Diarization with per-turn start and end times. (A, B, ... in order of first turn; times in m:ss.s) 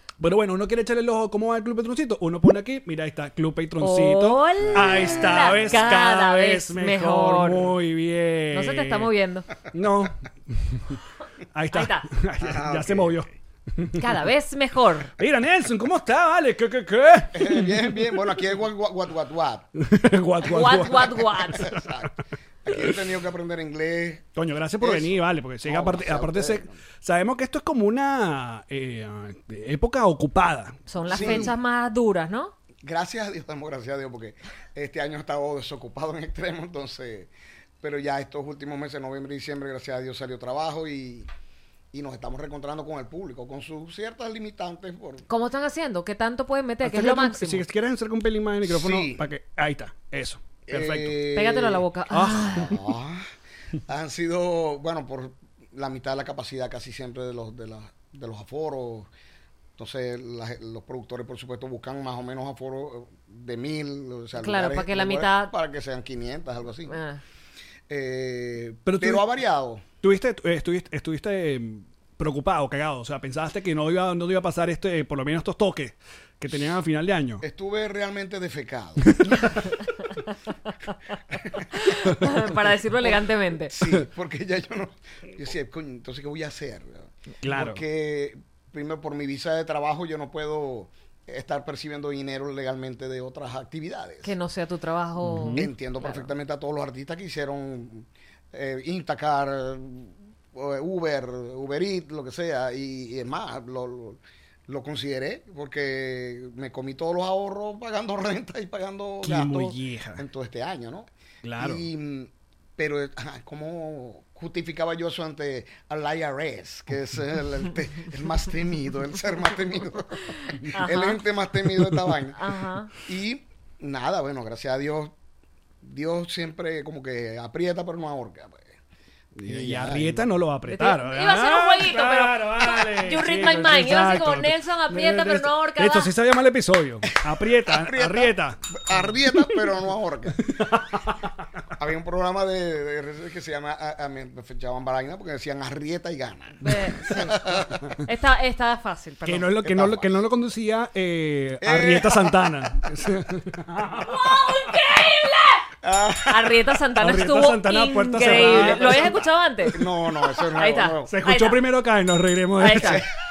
0:00.2-0:09.1 A
0:03.8-0:07.8 B
0:04.7-0:05.8 C
0:08.5-0:09.5 B
0:09.7-0:11.0 A
0:11.5-0:14.2 A
0:11.7-0:12.1 B
0:12.4-0:13.2 C
0:14.0-0:15.1 B
0:15.2-0:17.8 A
0:17.3-0:19.7 C
0:19.8-0:21.5 A
0:20.4-0:21.7 B
0:20.6-0:22.1 C
0:22.6-0:24.2 C
0:24.3-0:31.5 A
0:24.8-0:26.8 C
0:30.9-0:32.5 B
0:31.1-0:31.5 C
0:32.8-0:37.3 C
0:37.8-0:41.3 C
0:41.9-0:45.2 C
0:45.3-0:47.6 B
0:46.8-0:51.2 A
0:48.6-0:49.2 C
0:50.7-0:51.8 C
0:51.3-0:52.8 B
0:52.1-0:52.7 A
0:52.5-0:53.3 C
0:53.9-0:59.1 C
0:59.8-1:07.0 C
1:04.4-1:05.5 B
1:06.9-1:07.2 B
1:07.9-1:09.8 C
1:08.8-1:09.2 A
1:10.0-1:17.4 A
1:17.4-1:19.6 C
1:21.4-1:21.8 C
1:21.8-1:23.8 B
1:23.7-1:34.3 C
1:27.4-1:27.8 A
1:34.2-1:36.3 B
1:35.2-1:35.7 A
1:35.5-1:51.1 C
1:49.2-1:50.2 A
1:51.4-1:51.8 A
1:51.6-2:02.4 C
2:00.7-2:01.2 B
2:02.4-2:02.9 B
2:03.0-2:05.1 C
2:05.8-2:08.7 C
2:09.4-2:18.6 A
2:09.4-2:10.3 C
2:10.7-2:16.1 B
2:17.6-2:20.4 C
2:20.4-2:21.2 A
2:21.8-2:27.8 C
2:26.6-2:27.3 A
2:26.6-2:27.4 B
2:28.0-2:29.5 B
2:29.2-2:34.2 A
2:29.6-2:30.2 C
2:31.6-2:32.8 C
2:33.9-2:35.6 B
2:35.8-2:36.6 C
2:36.2-2:39.8 B
2:37.0-2:39.2 A
2:38.2-2:41.1 C
2:40.5-2:41.6 B
2:41.1-2:43.0 A
2:42.6-2:43.0 B